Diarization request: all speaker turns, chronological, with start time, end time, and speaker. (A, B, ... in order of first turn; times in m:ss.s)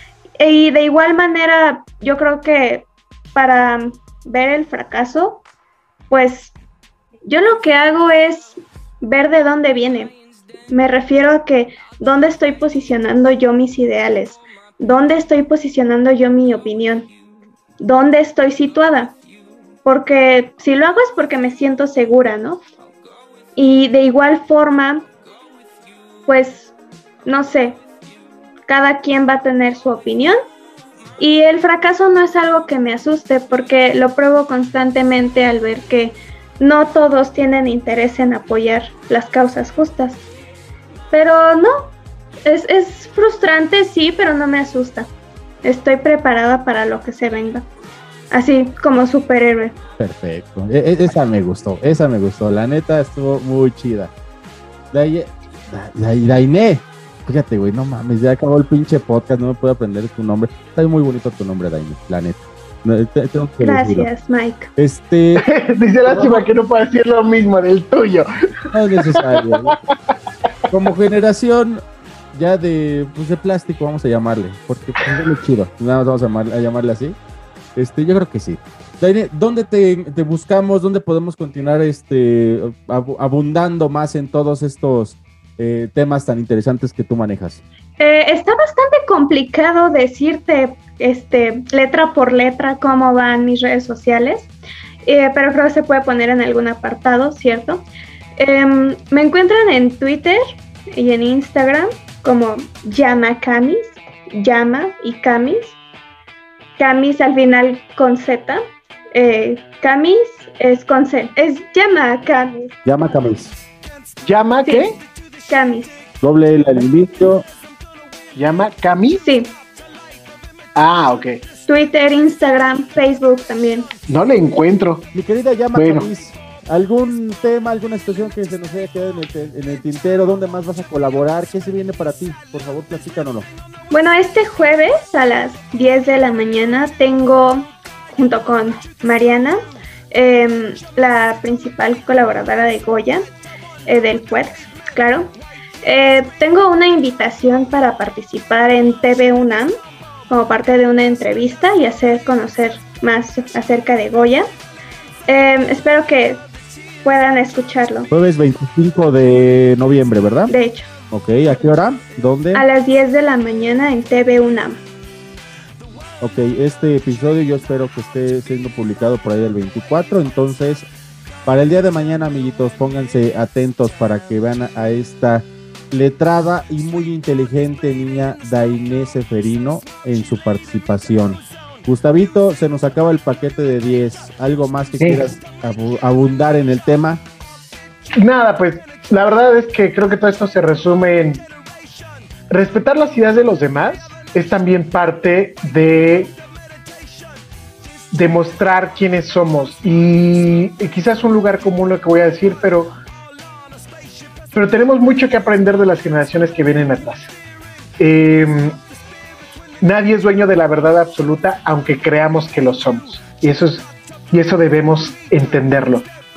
0:00.4-0:05.4 A
0:06.1-0:06.5 A
0:07.2-0:10.1 A
0:10.7-0:17.1 A
0:17.8-0:19.2 A
0:19.8-0:22.6 A
0:23.6-0:25.0 A
0:26.3-0:26.7 A
0:27.2-0:27.8 A
0:28.7-0:30.4 A
0:31.2-0:40.2 A
0:41.1-0:41.9 A
0:42.4-0:45.1 A
0:45.6-0:47.6 A
0:48.3-0:49.8 A
0:50.0-0:54.1 B
0:54.9-1:04.1 B
1:03.6-1:04.7 A
1:04.8-1:05.5 B
1:05.4-1:08.3 C
1:06.0-1:06.4 B
1:08.7-1:09.8 B
1:09.1-1:09.8 C
1:10.7-1:11.8 B
1:12.3-1:17.2 B
1:17.8-1:27.6 B
1:28.0-1:34.5 A
1:35.0-1:37.8 A
1:38.4-1:45.8 A
1:46.8-1:48.6 A
1:49.1-1:52.7 A
1:52.8-1:53.5 B
1:54.2-1:55.0 C
1:55.5-1:56.0 A
1:56.2-1:57.4 B
1:58.3-1:59.2 C
1:59.2-1:59.5 A
2:00.8-2:01.4 C
2:01.7-2:03.9 A
2:04.1-2:05.1 C
2:05.1-2:13.5 B
2:05.7-2:06.1 C
2:13.9-2:19.6 A
2:20.1-2:23.2 A
2:23.9-2:25.3 A
2:25.8-2:29.7 A
2:30.3-2:34.5 A
2:35.3-2:36.4 A
2:37.0-2:38.1 A
2:38.1-2:40.5 B
2:40.5-2:40.9 A
2:41.1-2:42.6 B
2:42.5-2:44.8 A
2:46.2-2:50.9 B
2:51.4-3:07.2 B
3:08.2-3:11.4 C
3:12.5-3:16.3 C
3:18.1-3:22.9 C
3:24.5-3:27.3 C
3:28.0-3:28.8 C
3:29.8-3:36.1 C